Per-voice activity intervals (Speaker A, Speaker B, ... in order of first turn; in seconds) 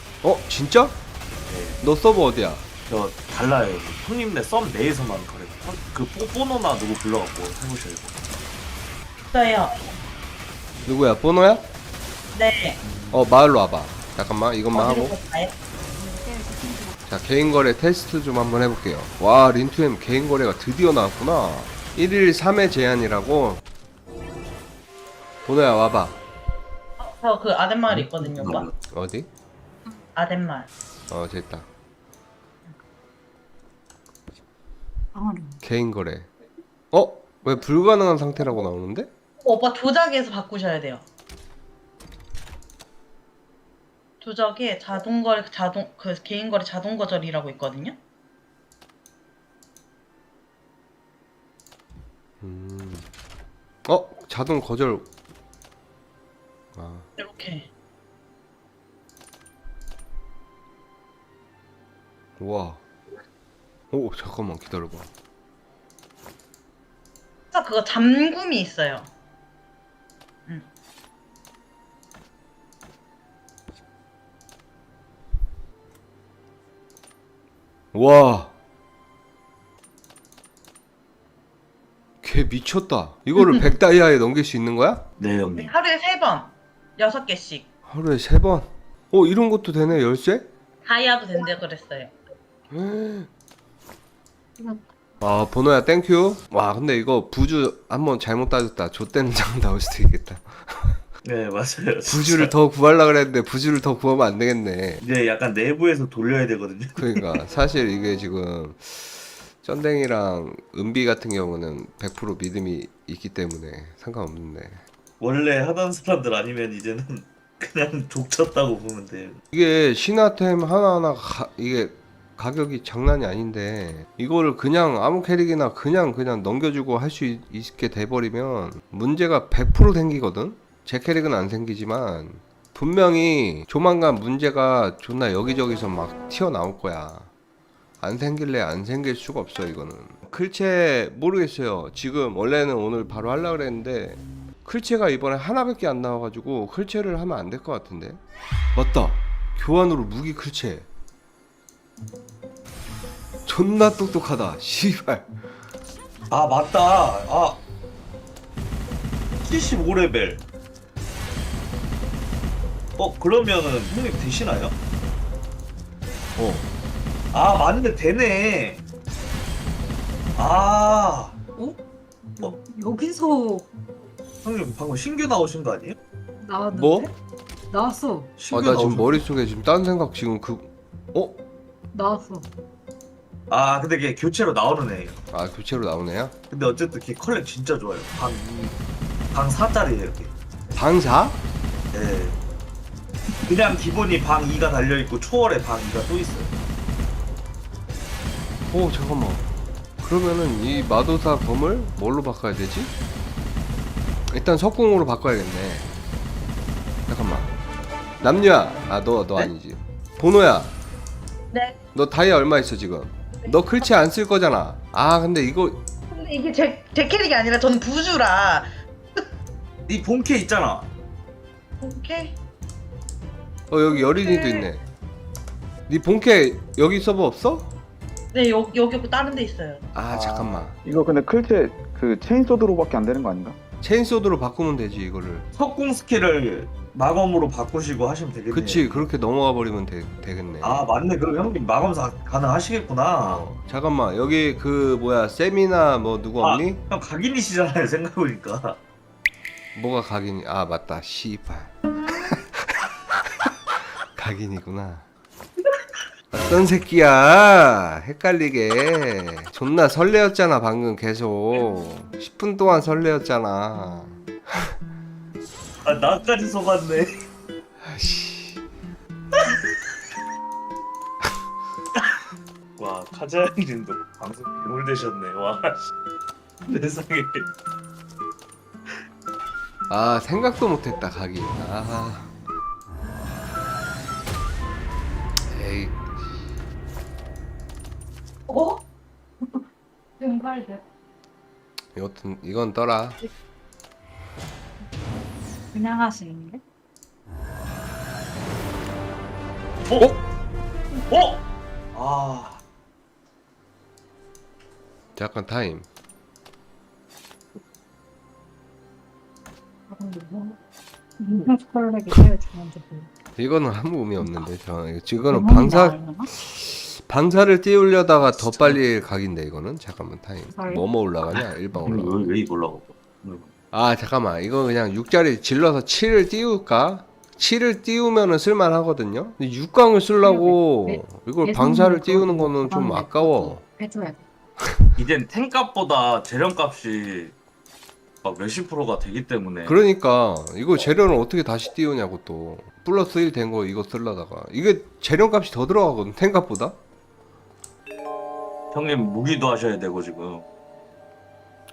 Speaker A: 0.2-1.0, 1.8-2.7, 10.8-11.7, 13.1-15.2, 17.1-23.6, 25.4-26.2, 28.9-29.3, 31.1-31.7, 35.6-36.3, 36.9-39.1, 52.4-53.0, 53.9-55.1, 56.8-57.1, 62.4-62.8, 63.9-65.1, 77.9-78.5, 82.2-85.0, 87.9-90.5, 92.7-93.3, 95.2-101.0, 102.1-105.0, 107.0-114.8, 119.5-137.3, 138.0-148.2, 148.8-150.9, 153.5-155.3, 166.4-166.7, 176.7-177.1, 178.5-181.4, 185.3-186.3, 190.8-191.4, 198.7-199.5, 200.0-202.9, 204.3-205.9, 207.1-207.5, 208.2-210.8, 211.9-215.8, 223.7-224.8, 225.9-227.7, 229.9-230.8, 233.8-235.5, 238.5-240.8, 243.2-246.8, 249.8-251.8, 254.2-255.1, 256.3-264.7, 267.8-268.6, 279.9-282.3, 285.5-286.5, 291.9-293.2, 305.2-305.9, 313.4-322.3, 323.7-333.6, 339.6-346.8
Speaker B: 1.5-1.8, 2.9-8.2, 12.8-13.2, 27.9-28.7, 85.2-85.7, 101.2-102.5, 105.0-107.3, 115.2-119.4, 156.3-157.6, 159.4-160.4, 163.0-164.8, 167.3-168.8, 170.3-171.4, 174.4-176.0, 178.4-179.2, 183.5-185.2, 186.5-188.8, 189.3-190.3, 191.9-192.4, 193.4-196.6, 219.9-220.9, 230.1-230.6, 235.6-239.1, 240.6-243.5, 246.4-248.8, 265.9-267.1, 272.8-275.8, 276.7-277.5, 299.9-300.2, 301.1-301.4, 301.9-302.6, 318.5-318.8, 321.3-323.5, 335.0-337.4, 338.2-339.8, 348.7-350.4
Speaker C: 9.2-9.8, 12.3-12.8, 14.7-15.5, 27.0-28.7, 30.1-30.7, 39.4-41.0, 44.2-48.0, 57.2-57.7, 67.5-69.1, 85.6-87.7, 90.8-92.1, 216.1-219.2, 221.8-222.4, 223.9-224.7, 228.3-229.8
Speaker D: 15.9-17.0, 35.1-35.6, 172.4-173.7, 176.4-177.1, 177.7-178.3, 181.9-182.5, 288.5-288.8, 290.2-290.8, 295.7-296.6, 309.9-310.6, 311.2-313.1, 314.2-314.5, 315.3-316.3, 320.5-320.9, 330.2-334.2
Speaker E: 230.8-233.6